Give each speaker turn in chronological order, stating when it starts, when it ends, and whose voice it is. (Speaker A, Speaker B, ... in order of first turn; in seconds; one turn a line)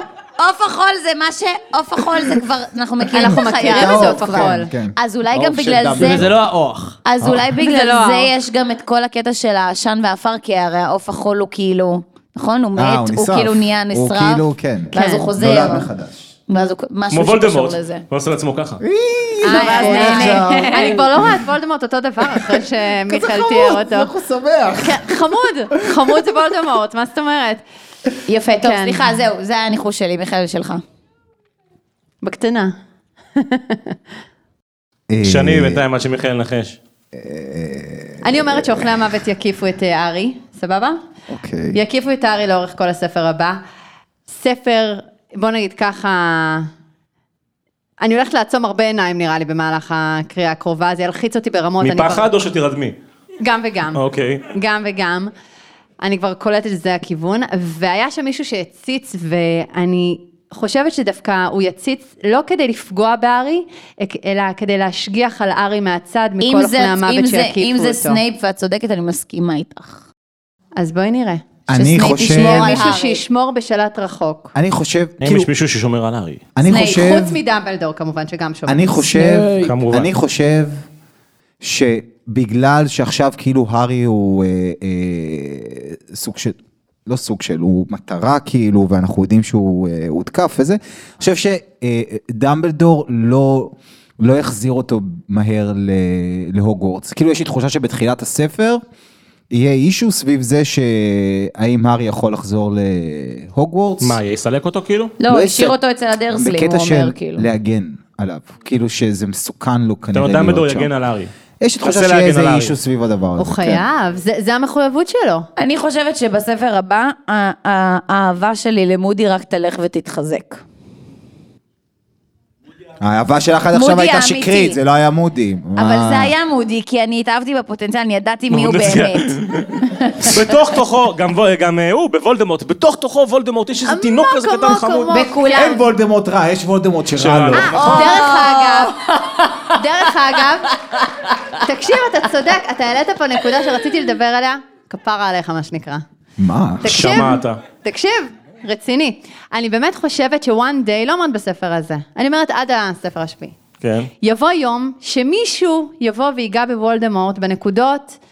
Speaker A: 0.4-6.3
Speaker B: 3.1-4.7
Speaker C: 3.1-6.3
Speaker D: 5.3-7.0
Speaker A: 7.0-15.9
Speaker B: 7.6-8.3
Speaker C: 12.8-16.3
Speaker B: 14.9-15.3
Speaker A: 16.5-18.0
Speaker E: 17.1-18.8
Speaker C: 18.8-21.4
Speaker A: 19.4-21.0
Speaker B: 19.4-24.1
Speaker C: 22.3-25.2
Speaker B: 24.8-27.6
Speaker A: 28.3-30.8
Speaker B: 28.5-29.2
Speaker B: 32.2-32.7
Speaker B: 33.4-34.0
Speaker C: 35.1-35.8
Speaker E: 35.2-36.8
Speaker C: 37.1-39.2
Speaker B: 38.2-41.0
Speaker C: 41.3-41.8
Speaker B: 41.7-43.6
Speaker B: 44.3-46.7
Speaker B: 48.0-52.3
Speaker E: 51.8-52.9
Speaker B: 53.4-54.0
Speaker E: 53.9-54.5
Speaker B: 54.5-55.3
Speaker B: 56.0-68.2
Speaker A: 66.4-70.0
Speaker B: 70.8-71.4
Speaker C: 71.7-72.9
Speaker A: 71.7-73.2
Speaker B: 72.2-74.5
Speaker C: 74.5-75.5
Speaker E: 75.2-76.4
Speaker C: 76.5-77.4
Speaker A: 76.6-77.2
Speaker B: 76.7-79.1
Speaker C: 78.7-80.8
Speaker D: 79.2-79.7
Speaker E: 79.6-80.1
Speaker C: 81.6-98.8
Speaker C: 99.5-104.2
Speaker E: 104.0-105.1
Speaker A: 105.2-107.5
Speaker C: 105.3-105.8
Speaker C: 106.3-110.9
Speaker E: 110.1-111.3
Speaker C: 111.6-113.8
Speaker E: 111.8-112.7
Speaker B: 113.4-115.5
Speaker A: 115.6-120.6
Speaker C: 123.0-126.3
Speaker A: 123.7-124.8
Speaker A: 125.8-130.5
Speaker E: 128.5-135.2
Speaker B: 133.8-135.8
Speaker A: 135.1-135.8
Speaker C: 135.5-137.9
Speaker E: 137.2-138.3
Speaker B: 137.5-138.9
Speaker A: 137.8-141.6
Speaker B: 139.7-140.7
Speaker B: 141.6-146.0
Speaker C: 146.4-147.3
Speaker B: 146.8-153.5
Speaker E: 146.8-147.6
Speaker E: 153.8-154.1
Speaker B: 154.2-158.2